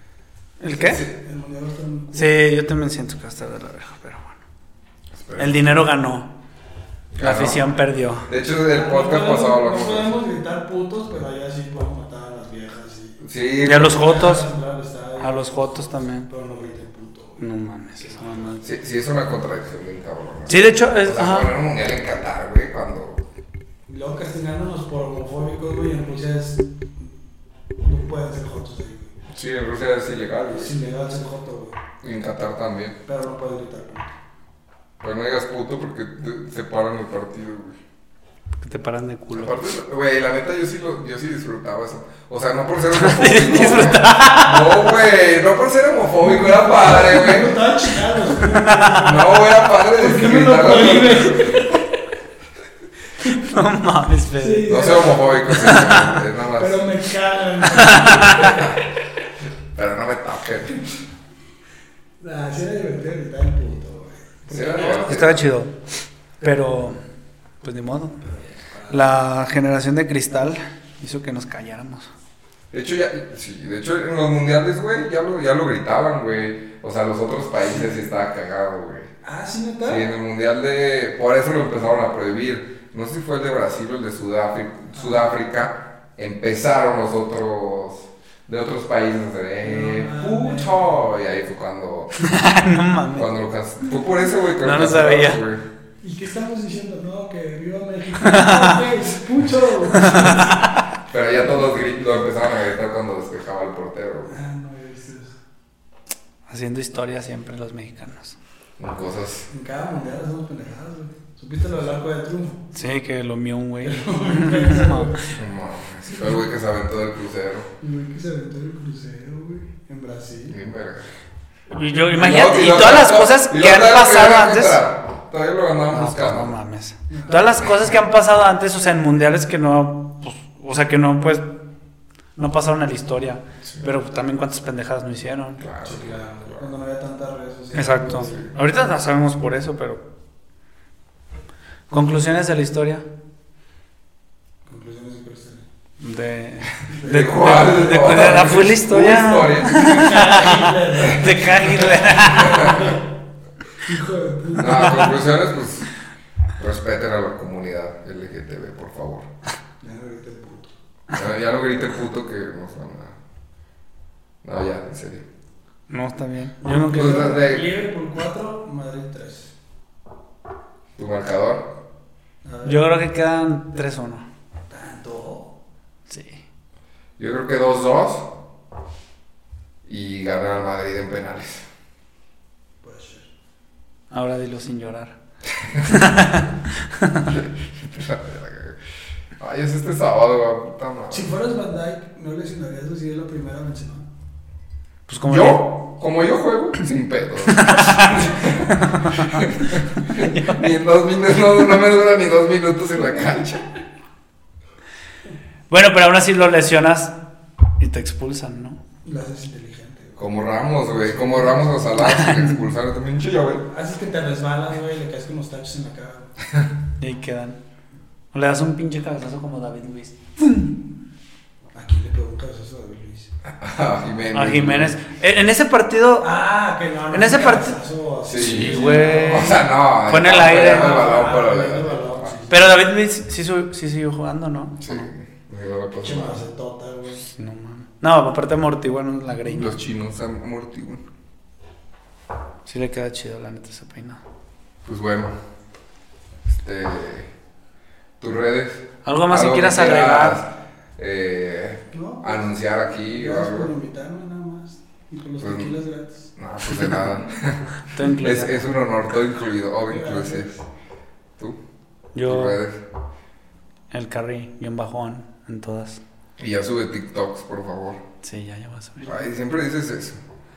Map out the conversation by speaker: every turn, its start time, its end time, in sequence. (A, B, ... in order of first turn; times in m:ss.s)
0:00.6-0:01.0 A
0:00.7-0:01.1 B
0:00.8-0:02.3 C
0:02.1-0:04.4 A
0:05.1-0:05.8 B
0:05.4-0:06.3 A
0:07.1-0:07.6 B
0:07.2-0:08.3 A
0:08.2-0:10.2 B
0:08.7-0:17.4 C
0:13.2-0:14.0 B
0:13.6-0:14.5 A
0:15.2-0:16.3 A
0:17.4-0:18.6 A
0:18.0-0:18.6 C
0:18.6-0:23.2 B
0:20.5-0:21.5 A
0:23.9-0:27.1 C
0:27.8-0:29.1 C
0:29.3-0:30.7 B
0:30.5-0:31.8 C
0:32.0-0:33.0 B
0:33.0-0:34.1 C
0:35.0-0:37.8 B
0:38.6-0:39.5 A
0:39.3-0:47.6 B
0:42.9-0:45.0 A
0:46.2-0:51.8 C
0:48.5-0:49.2 A
0:49.0-0:51.7 B
0:53.3-0:54.8 A
0:54.4-0:55.8 C
0:54.6-0:56.8 B
0:55.5-0:56.2 A
0:56.5-0:58.7 C
0:57.7-0:58.6 A
0:58.5-0:58.7 B
0:59.7-1:00.9 B
1:02.2-1:05.3 C
1:04.5-1:05.5 B
1:04.8-1:05.8 A
1:06.4-1:07.0 A
1:07.6-1:08.2 A
1:08.2-1:09.2 C
1:08.9-1:12.1 A
1:12.7-1:19.1 B
1:19.2-1:20.1 C
1:19.8-1:32.3 B
1:25.0-1:25.2 C
1:29.6-1:31.0 C
1:32.2-1:33.3 A
1:33.1-1:35.6 B
1:34.5-1:35.4 A
1:36.0-1:40.6 C
1:38.2-1:38.9 A
1:39.9-1:40.8 A
1:41.1-1:44.3 B
1:44.2-1:45.4 C
1:46.5-1:48.3 A
1:48.8-1:49.4 B
1:49.5-1:52.6 C
1:52.7-1:55.3 A
1:53.8-1:55.3 C
1:55.3-1:57.7 B
1:57.8-2:00.6 C
2:00.5-2:01.1 B
2:01.7-2:04.8 A
2:02.1-2:06.5 B
2:05.9-2:11.5 A
2:07.1-2:07.6 C
2:07.6-2:07.9 B
2:12.4-2:15.6 A
2:15.6-2:16.7 B
2:15.8-2:18.4 C
2:17.7-2:20.0 A
2:18.2-2:18.5 B
2:21.9-2:23.0 A
2:24.7-2:25.6 C
2:26.0-2:32.8 A
2:26.9-2:27.6 C
2:27.0-2:32.9 B
2:29.6-2:33.0 C
2:33.8-2:35.2 C
2:34.6-2:35.9 B
2:34.6-2:34.9 A
2:36.6-2:39.3 B
2:39.8-2:40.7 C
2:41.1-2:43.2 B
2:44.4-2:45.2 B
2:45.9-2:47.4 A
2:46.6-2:49.5 C
2:46.9-2:47.7 B
2:51.0-2:51.7 B
2:52.4-2:53.0 C
2:52.6-2:54.2 A
2:54.7-2:55.5 C
2:56.1-2:56.4 A
2:57.2-2:58.3 B
2:59.8-3:01.6 B
3:02.8-3:03.3 C
3:04.1-3:05.1 A
3:05.8-3:07.3 A
3:07.2-3:08.8 B
3:09.4-3:11.3 B
3:11.1-3:14.1 C
3:15.1-3:15.7 A
3:15.2-3:23.6 B
3:17.5-3:19.5 A
3:20.1-3:20.7 A
3:25.7-3:27.2 A
3:27.8-3:28.8 A
3:29.0-3:30.2 C
3:30.2-3:33.7 B
3:31.0-3:31.6 C
3:32.0-3:32.6 A
3:33.7-3:36.3 C
3:37.0-3:37.6 A
3:38.3-3:40.7 A
3:41.7-3:43.3 C
3:43.4-3:45.0 B
3:44.3-3:46.3 A
3:46.2-3:49.6 C
3:47.1-3:47.8 A
3:48.2-3:52.3 B
3:48.3-3:51.1 A
3:50.4-3:52.8 C
3:52.5-3:55.0 A
3:54.8-3:56.4 B
3:56.0-3:57.3 C
3:57.2-3:59.8 A
3:59.4-4:01.0 B
4:02.6-4:04.2 A
4:04.8-4:05.3 B
4:06.5-4:07.3 B
4:08.2-4:13.7 B
4:09.0-4:10.4 A
4:11.9-4:12.5 C
4:13.1-4:16.3 C
4:15.4-4:15.7 B
4:16.4-4:20.6 B
4:17.9-4:18.7 A
4:19.9-4:20.4 C
4:22.1-4:22.6 A
4:22.2-4:22.8 B
4:23.9-4:26.0 A
4:26.4-4:28.0 B
4:28.2-4:29.1 A
4:29.0-4:30.2 B